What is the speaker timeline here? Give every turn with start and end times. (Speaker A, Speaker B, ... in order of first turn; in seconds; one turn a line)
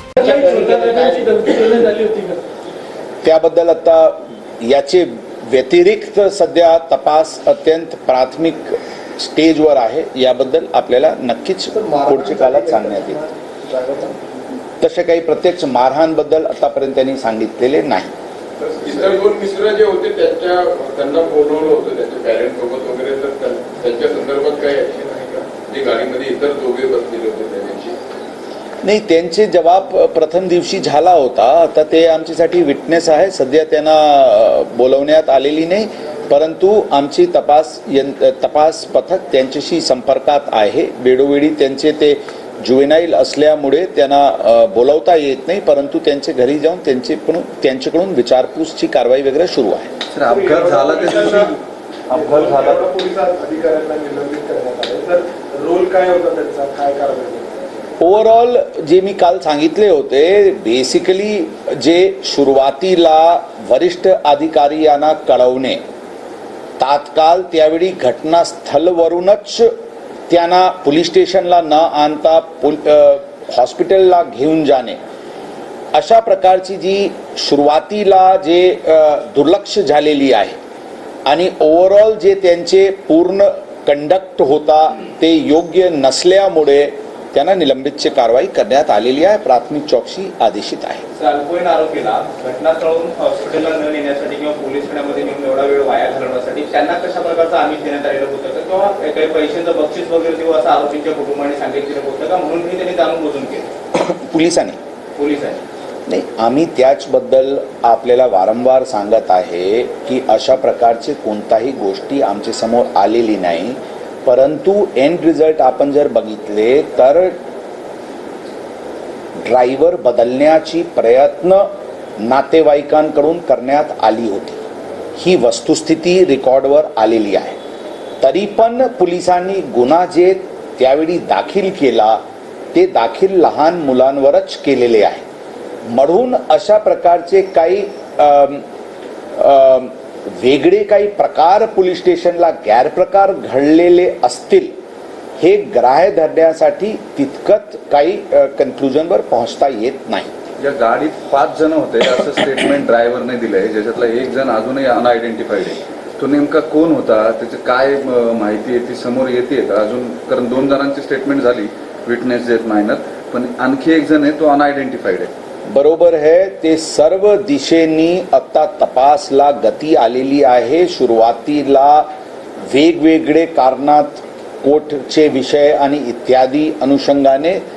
Speaker A: 0.2-2.4
Speaker B: 3.2-13.2
Speaker C: 11.8-14.2
Speaker B: 14.8-18.1
Speaker D: 18.6-28.0
Speaker B: 28.8-49.9
Speaker E: 50.1-51.6
Speaker C: 50.2-51.5
Speaker E: 52.1-52.9
Speaker C: 52.1-57.9
Speaker B: 58.0-65.8
Speaker B: 66.8-69.7
Speaker B: 70.3-75.0
Speaker B: 75.9-80.6
Speaker B: 81.3-91.0
Speaker A: 91.1-103.7
Speaker B: 103.9-104.8
Speaker A: 105.2-105.6
Speaker B: 106.1-117.4
Speaker B: 119.5-121.7
Speaker B: 122.2-124.6
Speaker B: 125.1-127.6
Speaker B: 128.2-132.2
Speaker B: 132.7-135.2
Speaker B: 135.9-138.6
Speaker B: 139.3-144.7
Speaker B: 145.4-150.3
Speaker E: 150.6-165.3
Speaker B: 165.7-172.1
Speaker B: 172.7-177.6